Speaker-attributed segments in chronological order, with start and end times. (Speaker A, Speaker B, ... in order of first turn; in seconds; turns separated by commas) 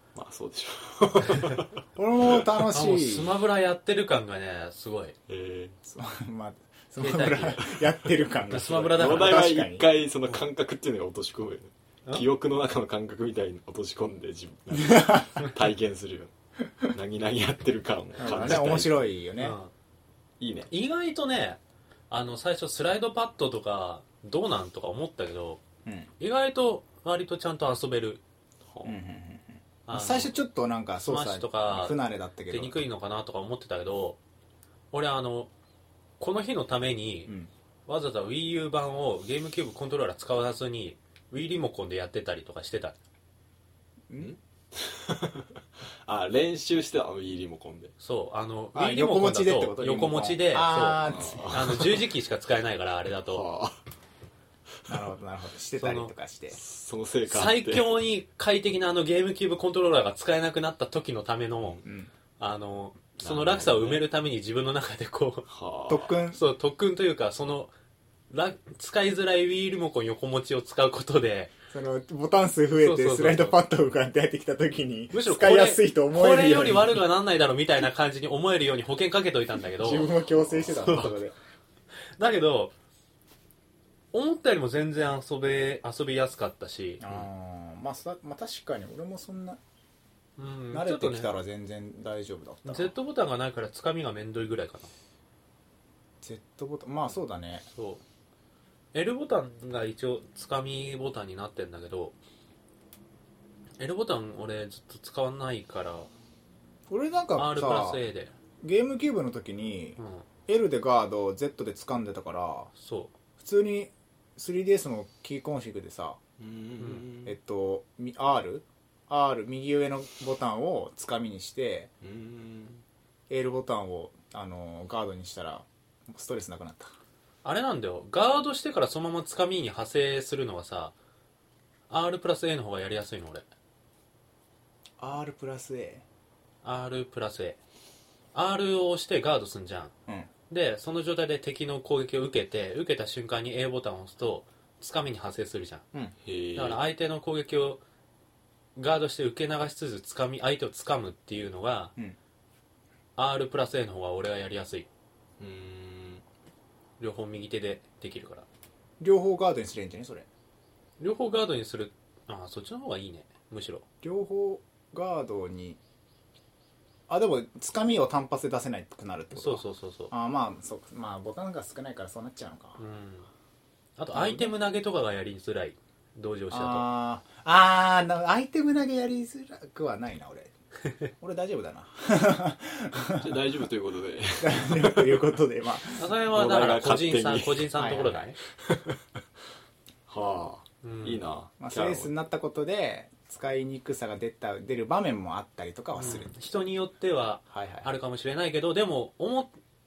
Speaker A: 0.1-1.7, Speaker B: 1.3-1.6, Speaker C: 2.0-3.3, Speaker B: 2.7-5.2, Speaker A: 5.3-5.8, Speaker C: 5.8-9.9, Speaker B: 7.0-7.8, Speaker B: 8.5-9.4, Speaker A: 8.9-16.3, Speaker C: 14.7-15.3, Speaker A: 16.9-19.0, Speaker C: 18.2-19.6, Speaker B: 18.2-18.8, Speaker B: 19.4-19.7, Speaker A: 20.4-20.7, Speaker B: 20.7-25.6, Speaker C: 25.9-26.1, Speaker B: 26.2-28.2, Speaker A: 28.7-29.0, Speaker C: 28.9-32.8, Speaker B: 29.9-30.3, Speaker B: 31.0-32.0, Speaker B: 32.5-34.2, Speaker B: 34.9-35.5, Speaker B: 36.2-37.3, Speaker B: 37.9-43.0, Speaker A: 44.2-45.5, Speaker A: 46.1-47.9, Speaker B: 48.0-53.5, Speaker C: 48.8-51.6, Speaker A: 51.1-52.0, Speaker A: 53.3-53.8, Speaker C: 54.9-56.6, Speaker B: 55.8-56.1, Speaker A: 56.5-57.9, Speaker B: 57.3-61.8, Speaker C: 61.8-62.1, Speaker B: 62.4-65.5, Speaker A: 63.2-64.0, Speaker A: 65.5-66.1, Speaker C: 65.9-66.4, Speaker B: 66.3-67.7, Speaker B: 68.3-71.5, Speaker C: 71.7-77.0, Speaker B: 72.8-73.6, Speaker B: 75.1-81.1, Speaker C: 79.8-81.3, Speaker B: 82.2-82.7, Speaker B: 84.1-87.3, Speaker C: 87.0-89.6, Speaker B: 90.4-91.3, Speaker C: 90.7-92.9, Speaker B: 92.7-94.9, Speaker C: 96.2-97.7, Speaker B: 97.8-98.0, Speaker B: 98.9-102.2, Speaker B: 103.8-106.1, Speaker C: 106.9-108.0, Speaker B: 107.4-108.3, Speaker C: 108.6-112.7, Speaker B: 110.0-110.3, Speaker B: 112.8-113.1, Speaker C: 113.4-116.2, Speaker A: 116.4-117.3, Speaker B: 116.8-117.0, Speaker C: 117.2-121.9, Speaker A: 122.0-122.8, Speaker C: 123.3-126.9, Speaker B: 127.4-130.9, Speaker B: 131.9-133.4, Speaker C: 135.0-136.1, Speaker B: 136.6-137.6, Speaker B: 138.3-139.9, Speaker B: 140.5-145.9, Speaker A: 146.2-146.8, Speaker B: 146.6-147.8, Speaker B: 148.8-151.9, Speaker B: 153.2-154.9, Speaker A: 155.4-156.2, Speaker B: 157.0-158.5, Speaker C: 159.0-160.3, Speaker B: 161.0-163.8, Speaker C: 164.0-165.8, Speaker C: 167.1-172.8, Speaker B: 169.3-170.1, Speaker B: 172.8-173.3, Speaker B: 174.0-176.9, Speaker C: 174.1-174.5, Speaker C: 176.5-180.5, Speaker C: 181.2-183.5, Speaker A: 183.2-185.3, Speaker C: 184.4-186.1, Speaker B: 186.0-188.4, Speaker A: 186.3-187.7, Speaker C: 187.8-188.3, Speaker A: 188.7-189.0, Speaker A: 190.1-192.1, Speaker B: 190.8-191.2, Speaker C: 191.6-196.3, Speaker B: 196.0-199.5, Speaker C: 197.5-197.9